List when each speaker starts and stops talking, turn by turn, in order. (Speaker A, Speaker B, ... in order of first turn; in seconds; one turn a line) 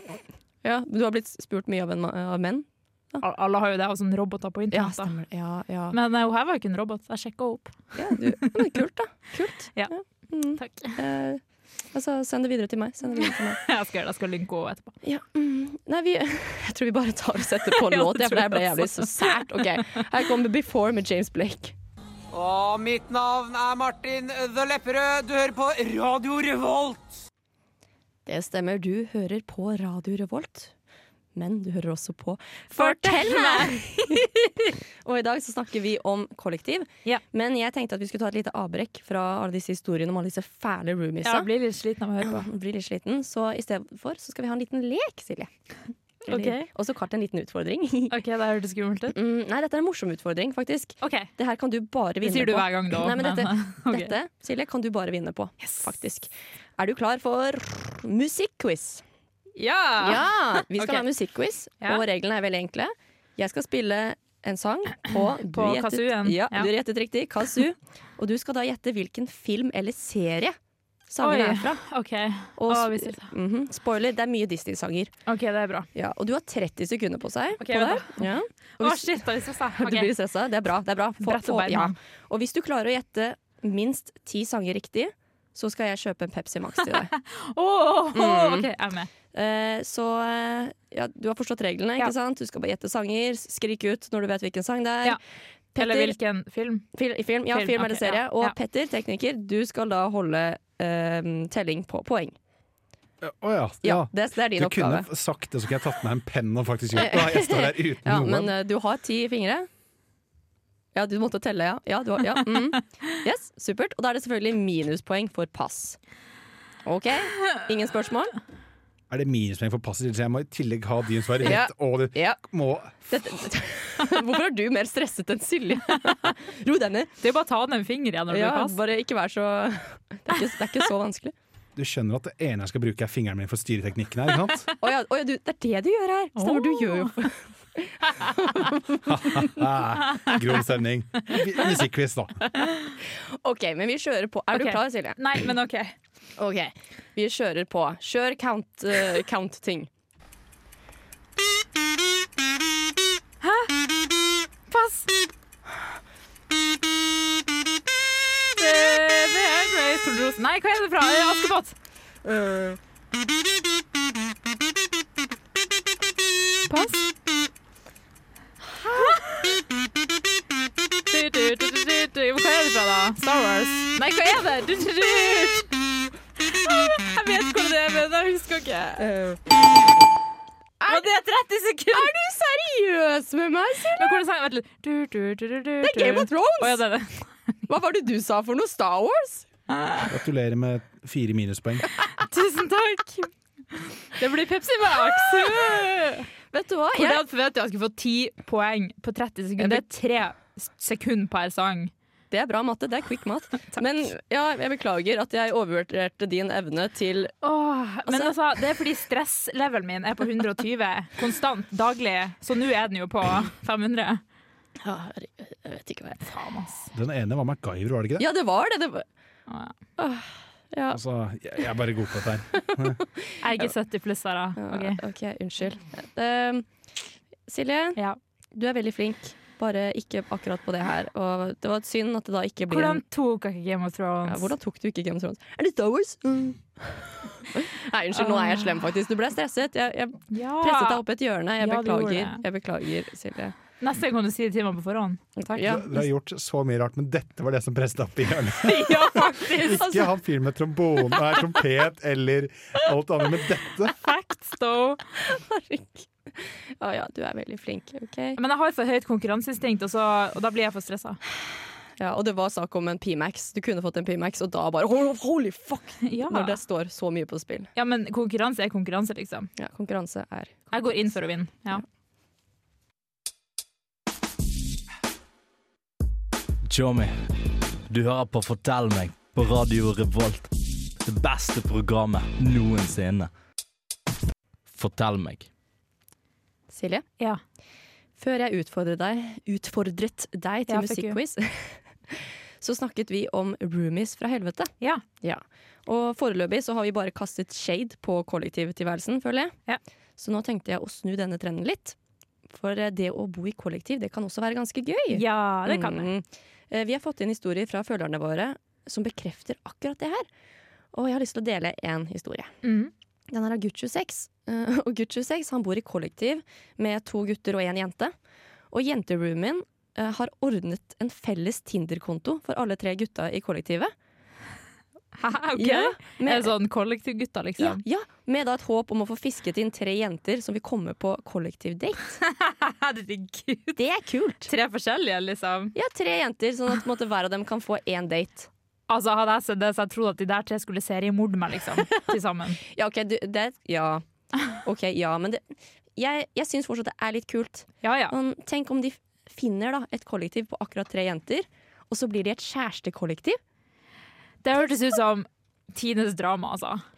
Speaker A: 0.6-3.2
Speaker B: 3.2-5.1
Speaker A: 4.7-6.0
Speaker B: 5.9-8.5
Speaker A: 7.9-11.4
Speaker B: 10.6-11.0
Speaker A: 11.9-13.6
Speaker B: 13.2-14.9
Speaker A: 15.0-21.7
Speaker B: 17.7-19.6
Speaker C: 22.3-27.2
Speaker A: 28.2-30.7
Speaker A: 31.3-34.5
Speaker B: 32.7-34.4
Speaker A: 35.0-41.5
Speaker B: 41.2-42.5
Speaker A: 42.2-45.5
Speaker A: 46.2-48.1
Speaker B: 46.3-46.7
Speaker B: 48.1-49.1
Speaker A: 49.1-59.0
Speaker B: 51.0-51.3
Speaker B: 52.2-54.1
Speaker B: 59.6-61.0
Speaker A: 60.0-70.6
Speaker B: 65.1-66.7
Speaker A: 71.1-71.8
Speaker B: 71.2-73.3
Speaker A: 72.6-75.1
Speaker B: 75.3-75.9
Speaker A: 75.9-87.1
Speaker B: 77.6-78.2
Speaker B: 78.8-80.1
Speaker B: 81.2-82.0
Speaker B: 86.8-89.1
Speaker A: 88.1-88.7
Speaker A: 89.3-95.2
Speaker A: 95.7-96.2
Speaker B: 95.8-96.9
Speaker A: 96.9-102.3
Speaker B: 97.5-98.5
Speaker D: 103.2-108.5
Speaker A: 103.8-105.0
Speaker A: 106.9-109.7
Speaker A: 110.9-116.0
Speaker A: 116.8-118.3
Speaker D: 119.1-123.1
Speaker A: 121.4-122.4
Speaker A: 123.1-127.1
Speaker B: 127.2-128.8
Speaker A: 128.3-131.3
Speaker D: 131.8-134.7
Speaker A: 134.8-139.5
Speaker B: 136.3-137.1
Speaker D: 139.1-142.4
Speaker A: 143.0-145.4
Speaker B: 144.5-145.9
Speaker A: 146.4-149.9
Speaker B: 153.4-153.7
Speaker B: 154.7-155.1
Speaker B: 158.6-161.7
Speaker A: 162.2-162.8
Speaker B: 166.7-167.0
Speaker A: 168.7-169.2
Speaker B: 168.9-169.3
Speaker B: 171.1-175.7
Speaker B: 176.4-179.0
Speaker A: 179.0-179.4
Speaker A: 180.8-181.1
Speaker B: 180.9-182.1
Speaker A: 181.9-184.2
Speaker B: 183.9-187.3
Speaker A: 185.8-186.8
Speaker A: 187.7-189.4
Speaker B: 189.7-190.1
Speaker D: 190.1-191.8
Speaker B: 192.2-196.3
Speaker A: 195.4-195.8
Speaker A: 196.5-197.2
Speaker B: 196.9-201.9
Speaker A: 199.6-199.8
Speaker A: 202.3-207.3
Speaker B: 207.4-214.2
Speaker A: 208.1-208.3
Speaker A: 214.8-216.2
Speaker B: 216.2-216.9
Speaker D: 216.9-218.2
Speaker A: 218.2-219.0
Speaker B: 219.5-219.7
Speaker A: 220.0-221.0
Speaker D: 220.9-223.0
Speaker A: 222.9-223.7
Speaker B: 223.4-225.0
Speaker A: 224.6-226.7
Speaker A: 227.5-228.0
Speaker A: 228.5-233.0
Speaker B: 232.7-234.5
Speaker A: 234.3-243.5
Speaker B: 238.1-238.7
Speaker B: 240.3-241.0
Speaker B: 241.6-242.4
Speaker B: 243.8-245.6
Speaker A: 245.4-246.0
Speaker D: 245.6-253.9
Speaker B: 248.6-249.9
Speaker A: 249.8-250.1
Speaker B: 253.9-255.0
Speaker A: 255.2-258.4
Speaker B: 258.4-261.2
Speaker A: 262.0-267.7
Speaker B: 266.0-266.6
Speaker B: 267.7-269.5
Speaker A: 269.6-271.2
Speaker B: 270.7-271.8
Speaker E: 276.6-277.3
Speaker E: 277.9-283.3
Speaker E: 284.7-285.5
Speaker A: 286.7-287.0
Speaker A: 288.2-299.6
Speaker B: 290.7-291.2
Speaker A: 300.2-301.9
Speaker A: 302.5-310.3
Speaker B: 305.1-306.1
Speaker A: 310.9-312.5
Speaker B: 312.6-312.9
Speaker A: 313.3-318.1
Speaker A: 318.7-323.9
Speaker B: 325.2-327.8
Speaker A: 325.6-326.5
Speaker A: 327.6-332.2
Speaker B: 332.2-333.8
Speaker A: 333.8-334.5
Speaker B: 334.5-335.8
Speaker A: 335.7-338.5
Speaker B: 338.9-342.6
Speaker A: 342.6-353.4
Speaker B: 347.8-348.1
Speaker B: 354.4-356.8